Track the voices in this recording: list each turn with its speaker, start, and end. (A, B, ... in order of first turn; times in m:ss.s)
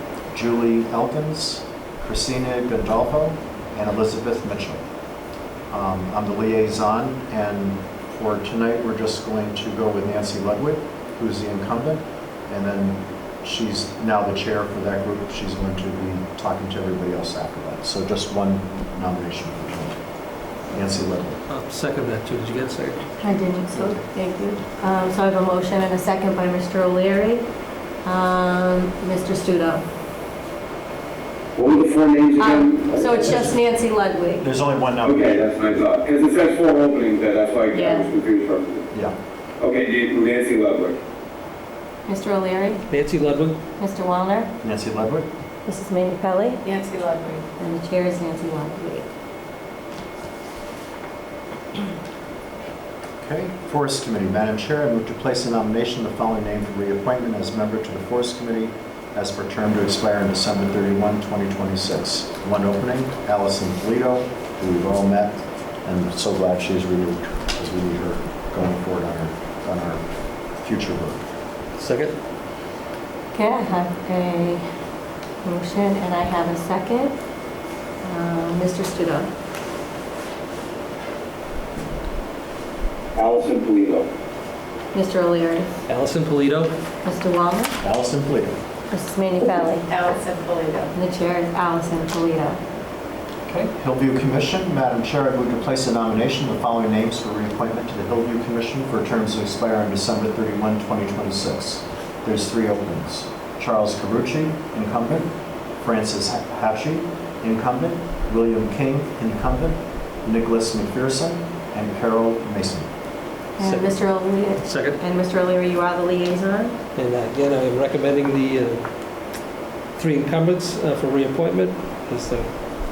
0:00.3-0:04.8 A
0:05.7-0:20.0 A
0:20.7-0:21.4 A
0:21.5-0:23.1 B
0:23.2-0:27.5 C
0:23.7-0:24.0 B
0:28.0-0:29.8 C
0:31.6-0:33.4 D
0:32.4-0:34.5 C
0:34.4-0:35.8 A
0:35.0-0:38.9 D
0:37.7-0:38.0 C
0:39.6-0:41.0 D
0:42.1-0:42.8 C
0:42.9-0:43.6 B
0:43.8-0:44.5 C
0:44.6-0:45.3 A
0:45.6-0:46.6 C
0:46.6-0:47.5 D
0:47.6-0:49.1 C
0:53.2-1:10.0 A
1:10.6-1:11.2 A
1:11.8-1:12.2 B
1:13.3-1:14.6 C
1:15.4-1:17.1 C
1:18.0-1:19.3 C
1:23.2-1:24.1 D
1:24.9-1:25.7 C
1:25.9-1:26.7 B
1:27.0-1:27.8 C
1:27.8-1:28.6 A
1:28.9-1:29.9 C
1:29.9-1:30.9 D
1:30.9-1:32.6 C
1:33.5-1:52.9 A
1:53.6-1:56.8 C
1:53.6-1:54.0 B
1:54.6-1:55.0 B
1:56.9-1:58.8 B
2:00.0-2:02.5 B